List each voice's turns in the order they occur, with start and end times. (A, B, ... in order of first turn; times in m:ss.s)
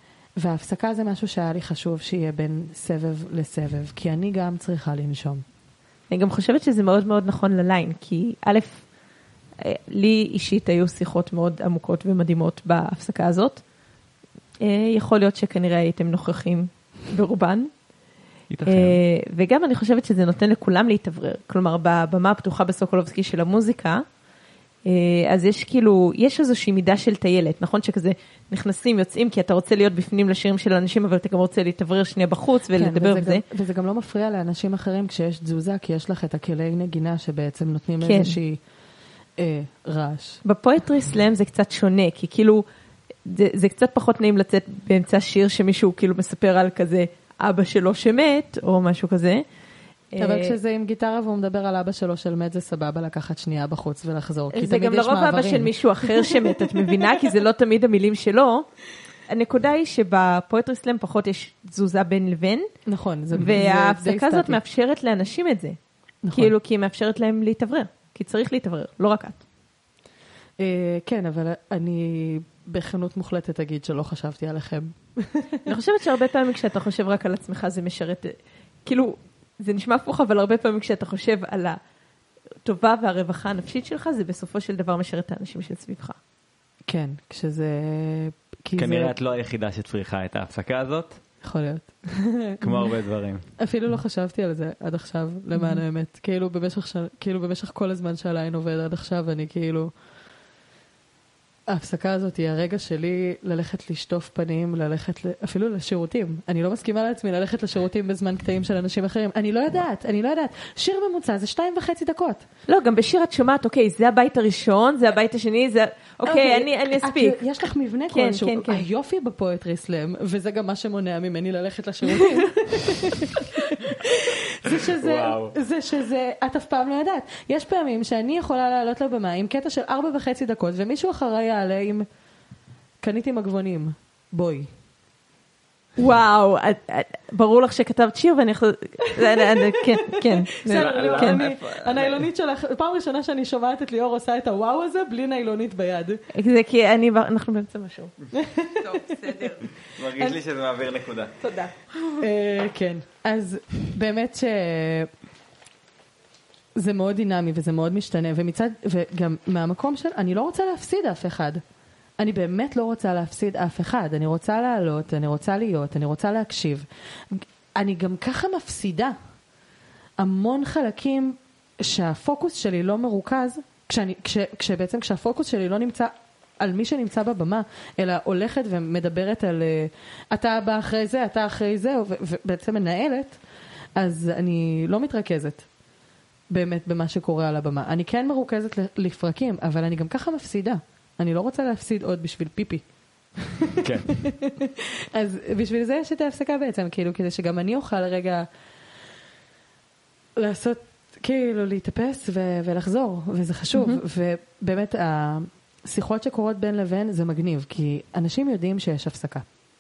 0:00.4-0:05.4 A
0:06.1-0:08.8 B
0:09.6-0:13.6 B
0:14.6-0:17.7 B
0:18.5-0:19.0 C
0:18.6-0:24.0 B
0:24.9-0:33.4 B
0:32.8-0:38.6 A
0:38.0-0:38.4 B
0:39.4-0:40.4 A
0:40.4-0:42.6 B
0:43.2-0:49.4 B
0:50.1-0:50.6 B
0:50.2-0:57.2 A
0:54.5-0:58.6 B
0:59.3-1:02.7 B
1:02.9-1:04.6 A
1:03.3-1:05.8 B
1:06.2-1:06.5 A
1:06.3-1:09.4 B
1:10.6-1:15.6 A
1:15.6-1:21.8 B
1:22.6-1:26.2 B
1:26.9-1:29.1 A
1:28.8-1:31.2 C
1:31.4-1:32.9 A
1:32.6-1:33.4 C
1:33.6-1:39.9 A
1:35.6-1:35.8 B
1:41.7-1:52.4 A
1:52.7-1:57.4 B
1:56.2-2:12.1 A
1:58.1-1:58.8 B
2:05.0-2:05.6 C
2:13.0-2:14.7 A
2:16.0-2:21.6 B
2:19.1-2:26.2 A
2:20.7-2:22.2 C
2:26.3-2:28.1 B
2:28.4-2:29.4 A
2:28.8-2:29.6 B
2:29.9-2:31.4 C
2:31.4-2:32.2 B
2:32.2-2:35.1 A
2:36.8-2:41.6 A
2:42.2-2:49.2 A
2:50.2-3:03.4 A
3:04.0-3:05.7 A
3:06.5-3:12.8 A
3:13.5-3:18.5 A
3:13.8-3:14.2 C
3:20.4-3:29.4 A
3:23.7-3:24.0 B